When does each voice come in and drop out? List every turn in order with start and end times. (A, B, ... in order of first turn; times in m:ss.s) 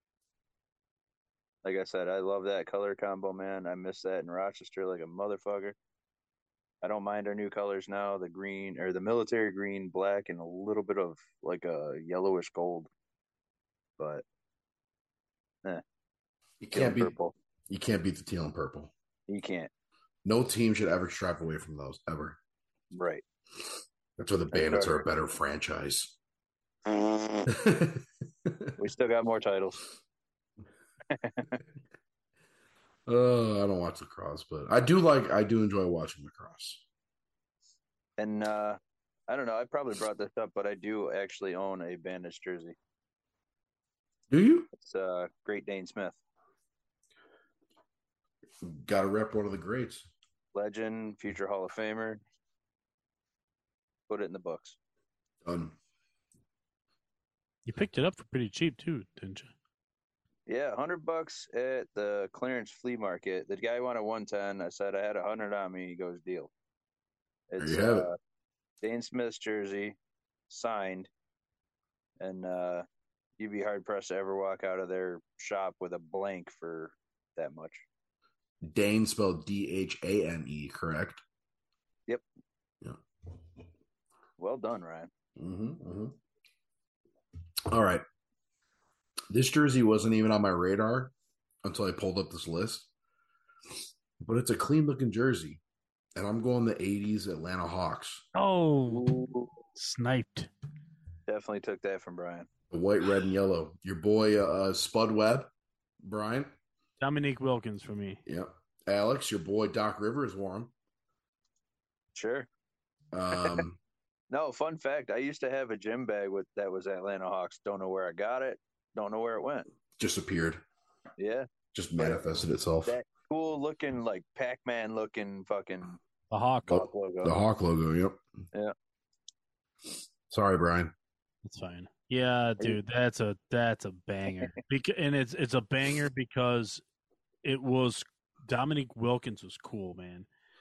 0:01.6-0:05.8 A
0:06.8-0:12.9 A
0:14.0-0:14.2 A
0:16.6-0:17.2 B
0:16.7-0:17.3 A
0:17.7-0:18.9 B
0:19.3-0:19.7 A
0:20.2-0:22.4 B
0:22.9-0:23.2 A
0:24.2-0:26.2 B
0:24.5-0:25.0 A
0:26.9-0:27.4 A
0:27.5-0:28.8 B
0:28.8-0:29.8 A
0:31.1-0:31.6 A
0:33.1-0:36.8 B
0:38.2-0:42.8 A
0:44.3-0:44.7 B
0:44.8-0:46.2 A
0:48.6-0:50.1 B
0:50.6-0:52.2 A
0:54.1-0:54.8 A
0:55.4-0:55.8 B
0:57.7-0:59.5 C
1:00.5-1:06.5 A
1:07.5-1:08.2 A
1:07.6-1:08.1 B
1:08.8-1:10.0 A
1:10.5-1:11.1 A
1:12.2-1:12.8 A
1:13.4-1:17.8 A
1:18.6-1:21.2 B
1:24.4-1:25.1 A
1:25.4-1:26.2 B
1:27.7-1:28.0 B
1:29.3-1:31.1 B
1:31.6-1:32.9 B
1:34.2-1:35.6 B
1:36.2-1:38.2 B
1:38.4-1:39.1 C
1:38.9-1:39.6 A
1:39.8-1:40.5 C
1:41.3-1:42.5 A
1:42.7-1:45.5 B
1:46.0-1:46.5 B
1:47.0-1:48.2 C
1:48.3-1:50.7 B
1:52.2-1:52.5 A
1:53.1-1:53.8 B
1:54.3-1:59.7 A
2:00.0-2:00.6 B
2:01.2-2:02.2 A
2:01.7-2:03.0 B
2:02.9-2:06.0 A
2:06.3-2:06.8 C
2:06.7-2:08.2 B
2:06.7-2:07.4 A
2:10.3-2:10.9 B
2:11.4-2:16.8 C
2:17.4-2:20.3 C